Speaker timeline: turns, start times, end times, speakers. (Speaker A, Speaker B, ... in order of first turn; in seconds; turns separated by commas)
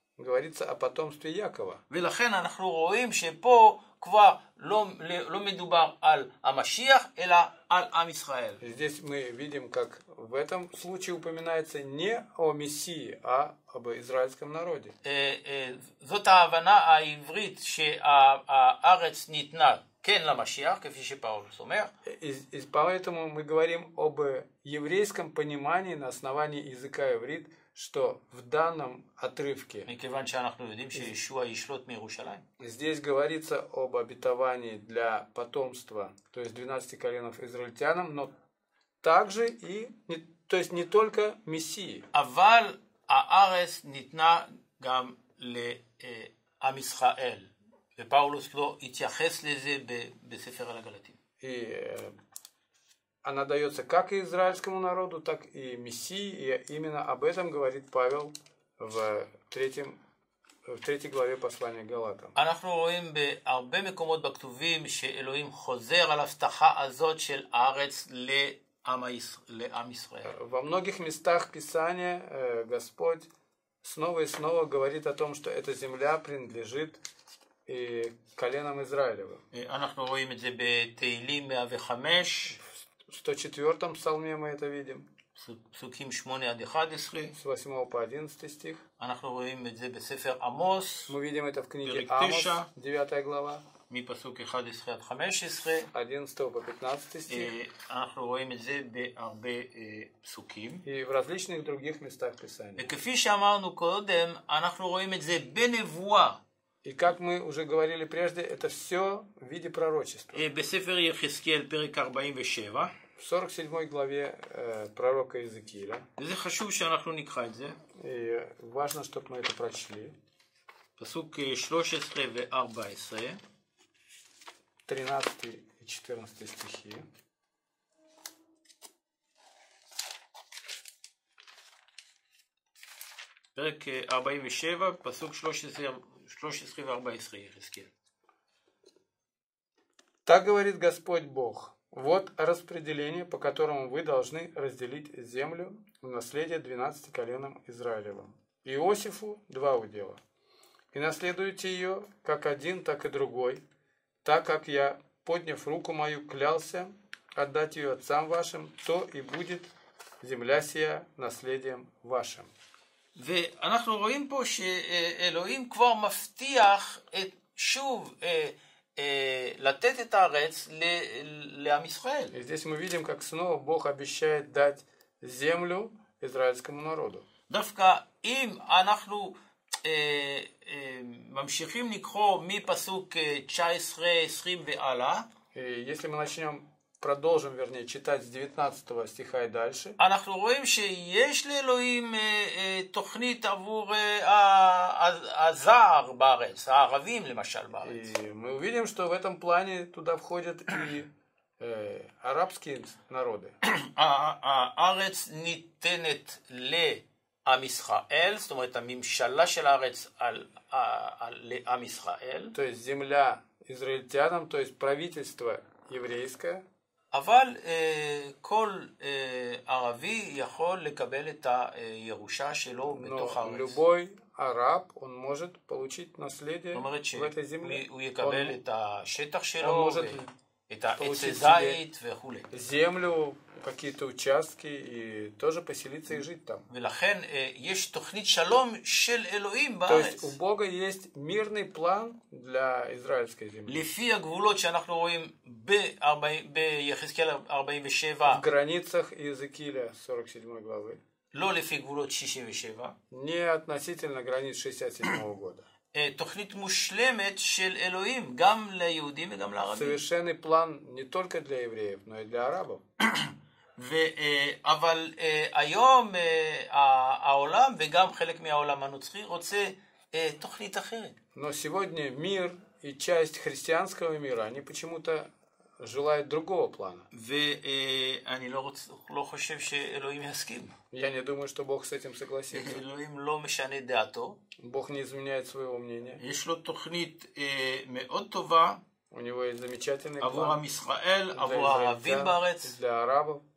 Speaker A: 0.2-1.8, Speaker B: 1.9-8.6, Speaker A: 8.6-14.9, Speaker B: 15.0-21.9, Speaker A: 22.0-29.9, Speaker B: 29.9-32.4, Speaker A: 32.6-38.3, Speaker A: 39.0-42.1, Speaker B: 42.1-51.2, Speaker A: 51.4-52.1, Speaker A: 53.2-60.0, Speaker A: 60.6-62.3, Speaker B: 62.3-70.3, Speaker A: 70.2-73.3, Speaker A: 73.8-77.0, Speaker A: 77.7-79.4, Speaker B: 79.5-82.6, Speaker A: 83.0-85.1, Speaker B: 85.3-87.3, Speaker A: 87.3-88.8, Speaker B: 89.0-91.2, Speaker A: 91.1-93.6, Speaker B: 91.8-92.7, Speaker B: 93.9-95.9, Speaker A: 95.9-97.5, Speaker B: 97.3-100.8, Speaker A: 100.8-102.9, Speaker B: 102.8-106.4, Speaker A: 106.8-110.4, Speaker B: 110.3-112.9, Speaker A: 113.2-116.1, Speaker B: 116.2-117.8, Speaker A: 117.9-120.1, Speaker B: 121.0-123.4, Speaker A: 124.9-127.0, Speaker B: 133.5-137.9, Speaker A: 140.2-150.2, Speaker A: 150.9-153.6, Speaker A: 154.2-162.5, Speaker B: 163.1-172.3, Speaker A: 172.3-177.2, Speaker B: 177.5-185.3, Speaker A: 185.5-190.0, Speaker B: 190.0-198.1, Speaker A: 197.8-203.5, Speaker B: 203.6-212.6, Speaker A: 212.5-216.6, Speaker B: 217.1-223.8, Speaker A: 222.9-228.6, Speaker B: 226.7-232.5, Speaker A: 229.6-230.3, Speaker A: 230.9-231.8, Speaker A: 232.5-236.7, Speaker B: 236.7-240.3, Speaker A: 239.8-243.9, Speaker B: 243.7-248.4, Speaker A: 248.2-251.0, Speaker B: 251.3-252.9, Speaker A: 253.1-255.6, Speaker B: 255.9-260.0, Speaker A: 259.7-262.8, Speaker B: 263.0-271.1, Speaker A: 271.3-277.1, Speaker B: 277.1-280.7, Speaker A: 280.9-282.8, Speaker B: 282.5-284.4, Speaker A: 284.6-286.2, Speaker B: 286.2-288.8, Speaker A: 289.1-290.6, Speaker B: 290.2-292.7, Speaker A: 291.3-293.4